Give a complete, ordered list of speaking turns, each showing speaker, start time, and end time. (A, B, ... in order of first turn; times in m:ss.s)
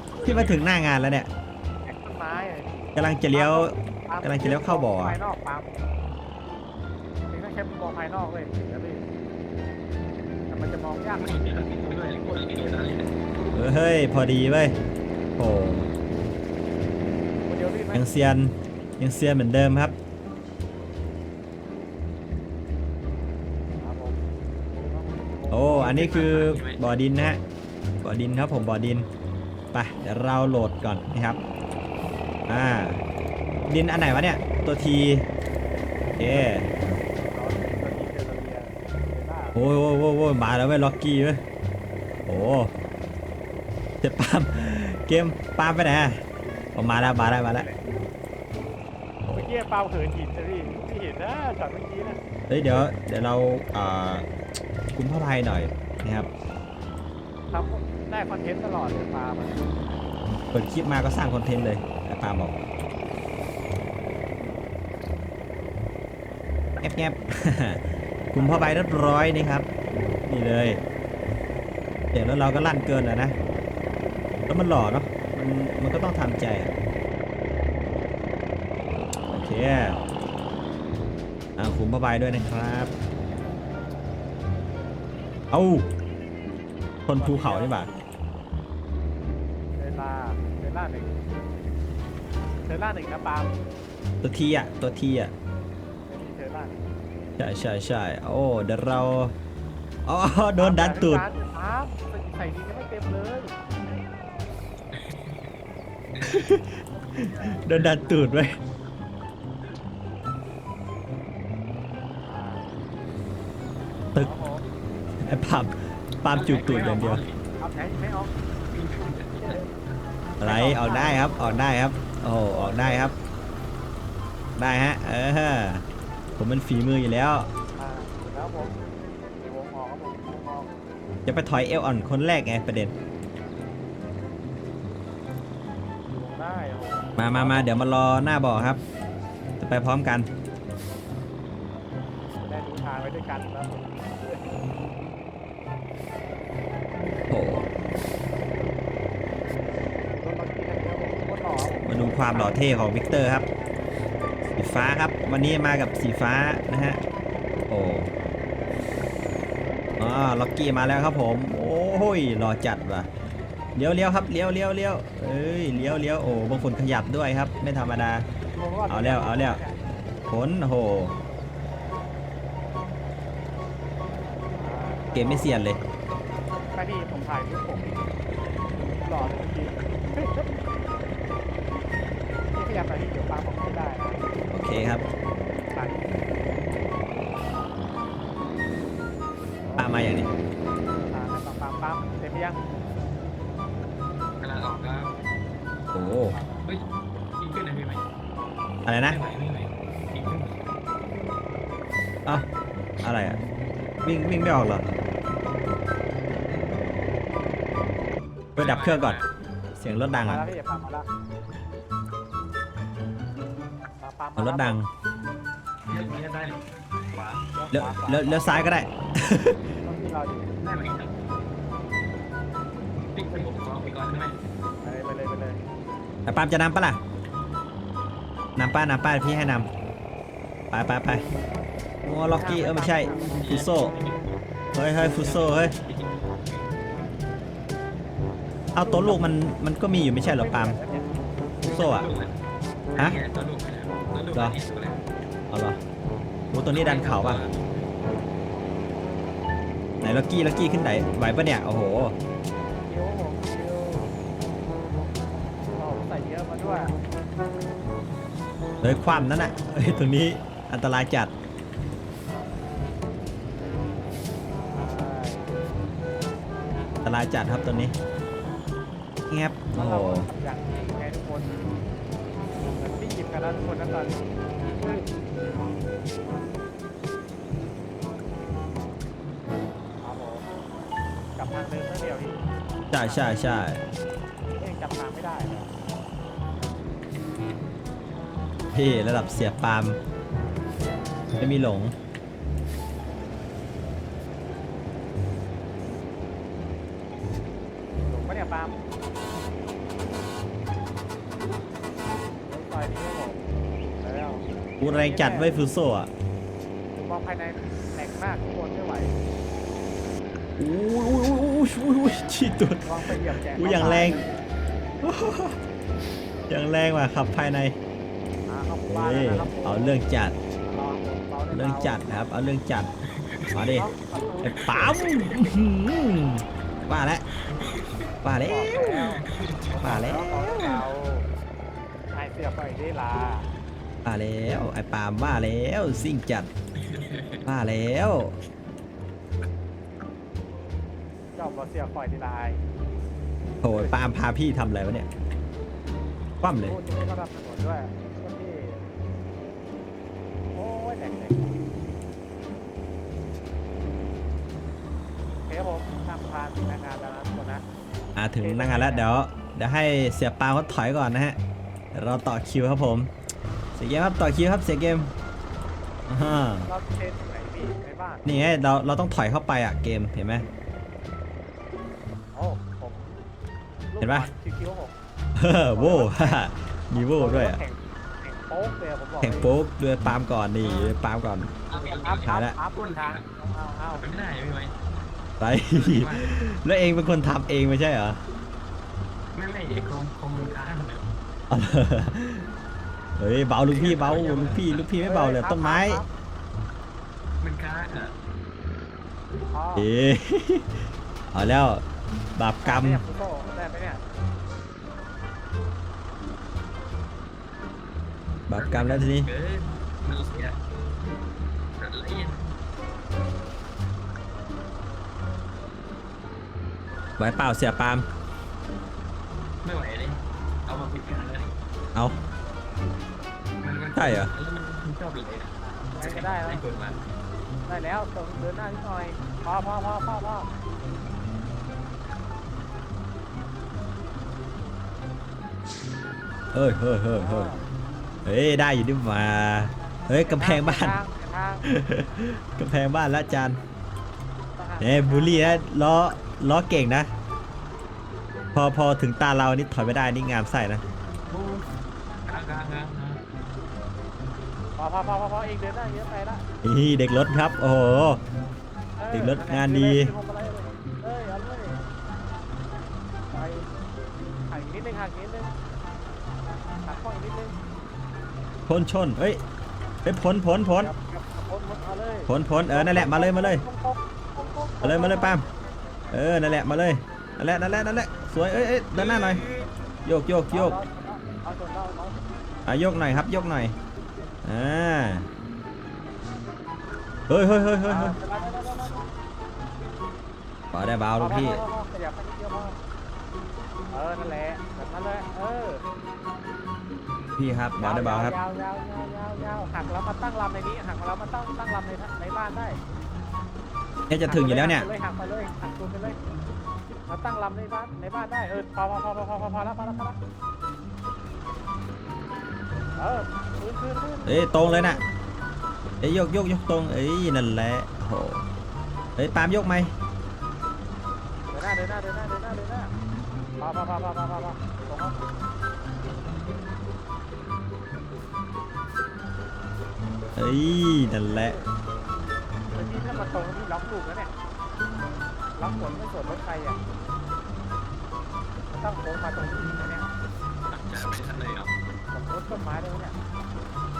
0:00.1-0:00.7 A
0:00.2-0:01.3 B
0:01.8-0:05.8 C
0:02.9-0:05.2 B
0:07.3-0:09.0 C
0:10.5-0:11.3 C
0:11.2-0:13.1 A
0:13.5-0:14.8 B
0:15.4-0:15.9 B
0:17.4-0:18.0 C
0:17.9-0:19.9 B
0:23.8-0:24.2 C
0:24.7-0:26.0 C
0:25.5-0:27.4 B
0:25.7-0:26.8 A
0:28.0-0:29.0 B
0:29.7-0:31.4 B
0:32.5-0:33.0 B
0:33.6-0:35.3 B
0:36.1-0:39.6 C
0:36.2-0:36.7 B
0:39.5-0:41.4 B
0:42.2-0:42.7 B
0:44.0-0:46.2 B
0:46.7-0:47.7 B
0:46.9-0:47.8 C
0:49.3-0:52.2 C
0:52.5-0:54.2 B
0:54.9-0:56.3 B
0:57.5-0:59.6 C
1:00.5-1:02.5 B
1:06.8-1:09.7 B
1:08.4-1:08.8 C
1:10.3-1:10.8 B
1:12.1-1:13.4 B
1:14.5-1:16.7 B
1:19.3-1:20.0 B
1:19.3-1:20.1 C
1:21.6-1:22.9 B
1:25.5-1:25.8 B
1:27.1-1:27.9 B
1:27.1-1:27.9 C
1:29.8-1:31.2 C
1:32.6-1:33.6 C
1:34.2-1:35.3 B
1:36.1-1:36.8 C
1:37.4-1:39.3 B
1:40.0-1:41.2 B
1:40.6-1:43.5 C
1:44.9-1:45.4 A
1:46.2-1:48.6 B
1:47.7-1:48.3 A
1:52.2-1:52.7 C
1:54.1-1:54.6 C
1:55.2-1:57.2 B
1:56.3-1:57.4 A
1:57.6-1:58.3 C
1:58.7-1:59.6 A
1:59.4-1:59.7 C
2:00.4-2:01.6 C
2:00.4-2:03.1 B
2:02.5-2:03.1 C
2:04.6-2:05.8 B
2:06.4-2:07.5 B
2:07.7-2:08.7 C
2:09.4-2:10.7 C
2:11.2-2:12.9 B
2:16.0-2:17.7 C
2:17.2-2:18.8 B
2:19.6-2:20.3 B
2:22.4-2:24.5 C
2:27.3-2:27.7 B
2:30.2-2:32.6 C
2:31.8-2:33.4 B
2:34.6-2:37.0 B
2:37.7-2:38.1 B
2:40.0-2:43.1 B
2:43.8-2:48.2 B
2:48.6-2:49.8 C
2:48.9-2:49.6 B
2:50.3-2:51.1 B
2:54.5-2:55.5 C
2:55.1-2:55.8 B
2:56.7-2:58.1 C
2:58.9-3:00.5 C
3:02.5-3:04.3 C
3:04.5-3:05.0 B
3:05.5-3:06.1 C
3:09.6-3:12.6 C
3:09.8-3:10.2 B
3:14.4-3:15.2 A
3:15.9-3:16.6 C
3:15.9-3:16.4 B
3:17.4-3:18.0 A
3:18.8-3:19.2 B
3:19.0-3:20.7 A
3:23.0-3:23.4 B
3:24.0-3:24.9 B
3:28.5-3:29.2 B
3:28.6-3:29.3 A
3:29.8-3:30.4 B
3:30.1-3:31.0 C
3:34.0-3:34.8 C
3:34.4-3:34.9 B
3:35.9-3:37.4 A
3:37.5-3:38.8 C
3:37.7-3:39.6 B
3:39.8-3:40.5 C
3:40.6-3:41.1 A
3:43.1-3:44.4 A
3:44.8-3:45.6 C
3:46.2-3:47.0 B
3:48.6-3:49.7 B
3:50.7-3:51.2 B
3:52.0-3:53.9 B
3:52.2-3:53.5 C
3:53.3-3:54.2 A
3:54.7-3:55.8 B
3:55.1-3:56.7 A
3:58.7-4:00.8 B
3:58.8-3:59.2 C
4:00.2-4:01.1 C
4:01.6-4:02.1 B
4:01.6-4:02.3 A
4:02.9-4:05.1 A
4:05.5-4:05.8 B
4:06.5-4:07.4 B
4:06.7-4:07.8 A
4:10.0-4:12.2 B
4:12.8-4:14.1 C
4:15.7-4:17.0 C
4:18.8-4:21.3 B
4:24.7-4:25.5 C
4:27.0-4:27.9 B
4:29.3-4:30.3 B
4:29.7-4:31.6 C
4:32.8-4:35.1 C
4:40.0-4:40.4 C
4:41.4-4:42.4 C
4:42.9-4:43.8 B
4:42.9-4:43.4 C
4:44.5-4:45.7 C
4:48.7-4:50.0 B
4:51.4-4:51.9 B
4:58.0-4:58.8 C
5:02.4-5:05.5 C
5:04.8-5:06.1 B
5:06.9-5:09.2 C
5:10.6-5:14.2 B
5:12.8-5:14.5 C
5:15.0-5:15.6 B
5:16.5-5:17.8 B
5:18.5-5:20.0 C
5:18.9-5:20.4 B
5:20.6-5:22.0 C
5:21.5-5:22.9 B
5:23.2-5:23.6 A
5:23.5-5:23.9 B
5:23.6-5:24.7 C
5:24.4-5:27.2 B
5:24.5-5:25.6 A
5:27.5-5:28.0 A
5:28.2-5:29.1 B
5:28.4-5:31.3 C
5:29.2-5:29.8 A
5:29.8-5:30.8 B
5:30.5-5:30.8 A
5:32.1-5:33.5 C
5:34.0-5:36.5 B
5:36.8-5:37.4 A
5:37.4-5:38.4 B
5:41.3-5:42.6 C
5:43.6-5:45.1 B
5:43.6-5:44.1 C
5:46.4-5:46.8 B
5:46.6-5:48.8 C
5:50.5-5:51.6 C
5:55.4-5:57.6 C
5:58.2-6:01.4 B
5:58.4-5:59.1 C
6:01.9-6:03.1 B
6:03.7-6:05.1 B
6:06.1-6:06.7 B
6:06.6-6:08.2 C
6:08.2-6:10.4 B
6:12.3-6:13.2 C
6:13.9-6:14.9 C
6:14.0-6:14.3 B
6:15.4-6:17.6 B
6:15.7-6:19.5 C
6:19.2-6:21.5 B
6:20.6-6:21.0 A
6:21.7-6:23.2 A
6:21.7-6:24.0 C
6:22.2-6:22.6 B
6:23.9-6:24.7 A
6:25.4-6:28.2 B
6:25.5-6:26.4 A
6:29.3-6:31.1 A
6:31.5-6:32.5 B
6:33.2-6:36.0 B
6:33.7-6:34.9 A
6:35.0-6:36.1 C
6:37.4-6:38.1 A
6:39.5-6:39.9 C
6:39.7-6:40.7 B
6:41.3-6:41.8 B
6:42.4-6:43.0 B
6:42.6-6:44.0 C
6:48.5-6:49.3 B
6:48.5-6:50.6 A
6:51.8-6:52.4 A
6:57.2-6:58.0 B
6:59.6-7:01.5 A
7:03.6-7:07.0 A
7:03.9-7:04.3 B
7:05.6-7:06.6 C
7:07.6-7:10.5 C
7:16.5-7:17.5 B
7:17.1-7:17.6 C
7:18.2-7:21.0 B
7:20.2-7:21.6 C
7:21.6-7:23.6 B
7:24.6-7:25.6 C
7:24.8-7:27.1 B
7:28.5-7:30.8 B
7:31.3-7:31.7 A
7:32.2-7:33.2 A
7:34.8-7:36.4 C
7:36.6-7:38.2 B
7:39.0-7:41.8 C
7:39.1-7:40.1 B
7:43.3-7:43.7 C
7:44.3-7:45.5 C
7:46.8-7:47.6 C
7:48.7-7:49.4 B
7:50.0-7:50.9 B
7:50.8-7:55.4 C
7:52.3-7:53.6 B
7:54.8-7:55.4 B
7:56.1-7:59.4 B
7:58.9-7:59.7 A
8:00.0-8:00.8 B
8:00.5-8:02.2 C
8:02.6-8:03.7 B
8:04.4-8:05.3 B
8:07.3-8:08.2 B
8:07.8-8:09.0 C
8:10.7-8:11.6 B
8:11.2-8:12.8 C
8:13.9-8:15.8 C
8:17.4-8:18.3 B
8:17.8-8:22.8 C
8:24.1-8:24.9 B
8:24.2-8:26.2 C
8:26.9-8:30.2 C
8:33.0-8:35.0 C
8:34.2-8:35.0 B
8:36.0-8:38.4 B
8:39.2-8:39.9 B
8:41.5-8:42.9 C
8:43.6-8:45.2 C
8:50.4-8:51.6 B
8:50.8-8:51.7 C
8:52.7-8:54.3 C
8:55.6-8:56.8 C
8:58.7-9:00.1 C
9:00.7-9:01.7 A
9:02.1-9:03.2 C